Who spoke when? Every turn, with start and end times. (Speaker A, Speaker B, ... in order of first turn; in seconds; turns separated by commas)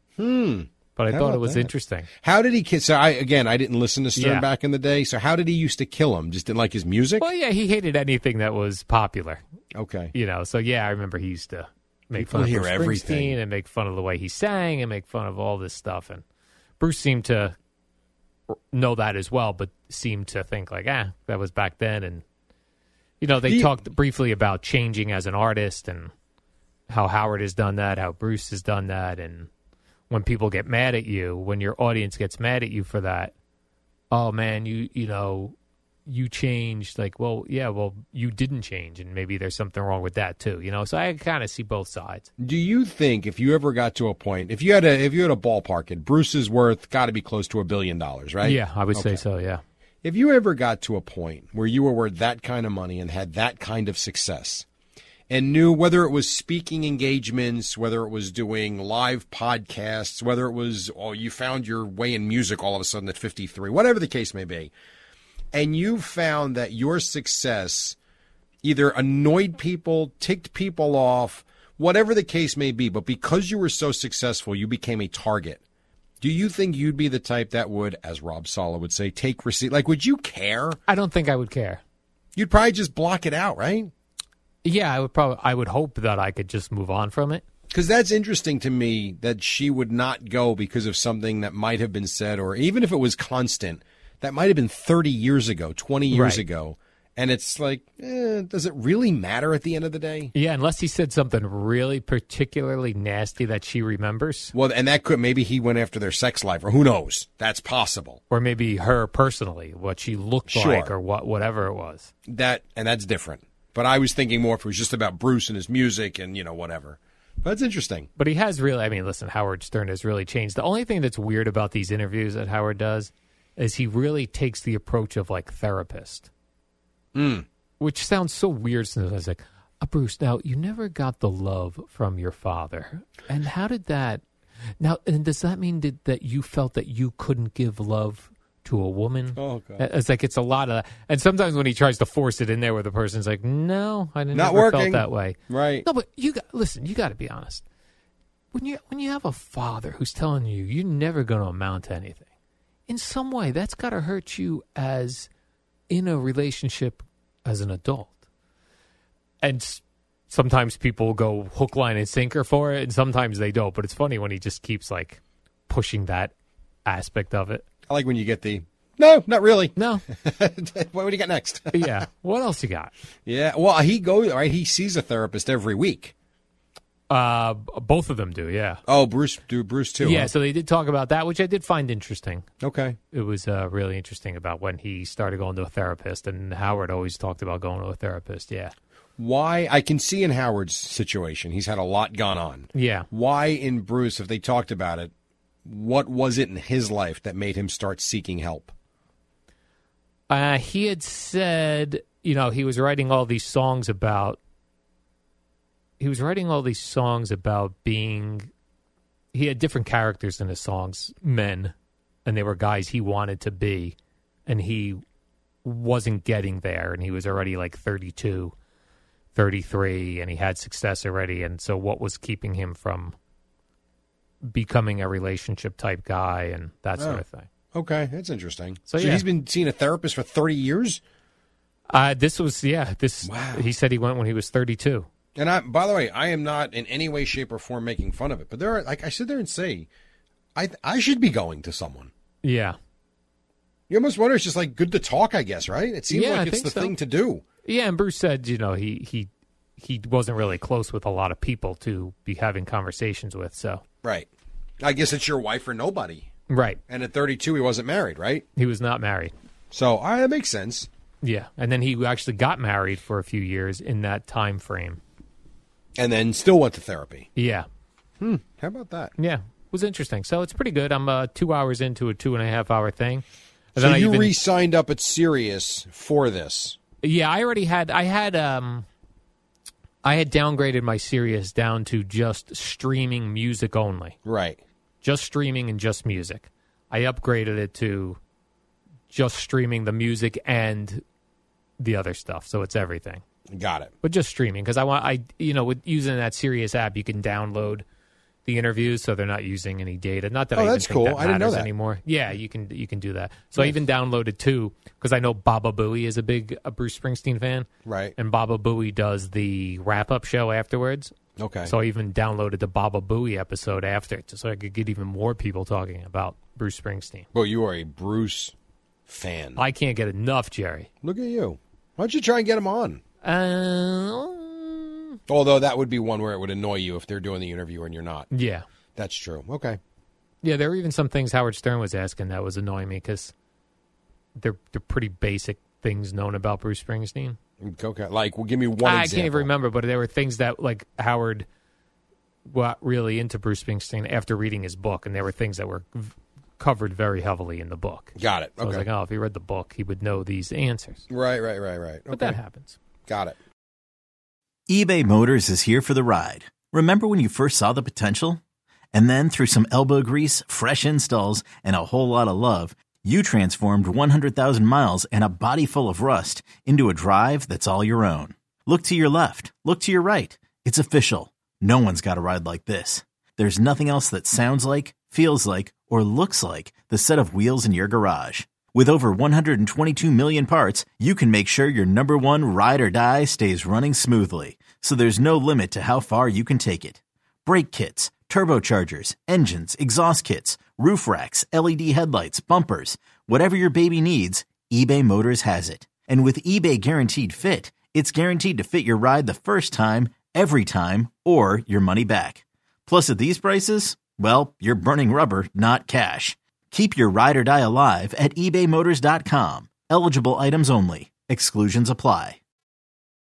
Speaker A: 0.2-1.7, Speaker B: 0.9-2.1, Speaker A: 2.2-7.2, Speaker B: 4.2-4.5, Speaker B: 7.2-9.4, Speaker A: 9.7-10.1, Speaker B: 10.1-16.2, Speaker A: 12.1-13.3, Speaker B: 16.8-17.5, Speaker B: 18.5-22.2, Speaker B: 23.2-26.1, Speaker B: 26.9-29.5, Speaker B: 30.1-33.3, Speaker B: 34.1-42.3, Speaker A: 42.4-49.2, Speaker B: 48.4-49.6, Speaker A: 50.0-54.6, Speaker A: 55.3-64.7, Speaker A: 65.5-68.0, Speaker A: 68.6-75.6, Speaker A: 76.2-80.8, Speaker B: 80.9-81.8, Speaker A: 82.3-83.9, Speaker B: 84.6-87.4, Speaker A: 87.7-100.3, Speaker B: 96.1-96.4, Speaker B: 100.3-104.5, Speaker A: 104.5-108.2, Speaker B: 108.3-112.1, Speaker A: 110.5-110.9, Speaker A: 112.3-118.1, Speaker B: 118.2-126.3, Speaker A: 127.1-127.5, Speaker B: 127.8-134.2, Speaker B: 134.8-147.6, Speaker A: 139.3-139.8, Speaker A: 144.3-145.8, Speaker B: 148.5-152.2, Speaker B: 152.9-155.3, Speaker B: 155.9-158.2, Speaker B: 159.4-166.3, Speaker B: 166.8-167.6, Speaker A: 167.9-171.9, Speaker B: 169.8-170.0, Speaker B: 171.7-172.9, Speaker A: 173.2-176.1, Speaker B: 177.1-178.8, Speaker A: 178.9-180.3, Speaker B: 180.0-182.5, Speaker A: 182.6-183.0, Speaker B: 183.1-188.7, Speaker A: 189.2-195.1, Speaker B: 192.7-193.1, Speaker A: 195.6-198.7, Speaker B: 200.3-204.4, Speaker B: 206.0-208.5, Speaker B: 209.3-211.7, Speaker B: 212.2-213.9, Speaker B: 214.5-215.0, Speaker B: 215.6-218.5, Speaker B: 219.3-223.1, Speaker B: 224.4-227.5, Speaker A: 227.0-231.0, Speaker B: 228.9-229.2, Speaker B: 231.9-235.1, Speaker A: 233.2-233.7, Speaker A: 235.3-239.9, Speaker A: 240.5-242.1, Speaker B: 242.4-242.8, Speaker A: 243.9-247.4, Speaker B: 246.1-246.9, Speaker B: 247.6-253.8, Speaker A: 254.0-254.3, Speaker A: 254.8-256.3, Speaker B: 256.5-256.8, Speaker A: 256.9-258.4, Speaker B: 258.6-259.3, Speaker A: 259.7-260.9, Speaker B: 261.2-265.0, Speaker A: 266.0-267.3, Speaker B: 267.4-267.6, Speaker A: 268.2-269.1, Speaker B: 269.2-273.2, Speaker B: 273.7-274.3, Speaker A: 273.8-276.8, Speaker B: 277.0-278.9, Speaker B: 280.0-284.1, Speaker A: 284.2-284.6, Speaker B: 285.0-288.2, Speaker B: 289.1-291.0, Speaker B: 291.8-293.2, Speaker A: 293.5-293.9, Speaker B: 294.0-297.8, Speaker B: 298.4-311.1, Speaker A: 300.5-301.7, Speaker A: 307.8-308.1, Speaker A: 311.4-311.7, Speaker B: 311.6-317.3, Speaker A: 317.3-318.5, Speaker A: 319.1-319.6, Speaker B: 319.6-320.9, Speaker A: 321.0-323.0, Speaker B: 323.2-325.2, Speaker A: 325.3-328.3, Speaker B: 328.3-328.6, Speaker A: 328.9-329.8, Speaker B: 330.4-333.3, Speaker B: 334.4-337.4, Speaker A: 337.6-339.5, Speaker B: 338.8-341.4, Speaker B: 342.4-351.1, Speaker A: 348.1-348.9, Speaker A: 351.1-352.4, Speaker B: 352.1-352.8, Speaker A: 353.1-353.4, Speaker C: 354.7-358.4, Speaker C: 358.9-412.4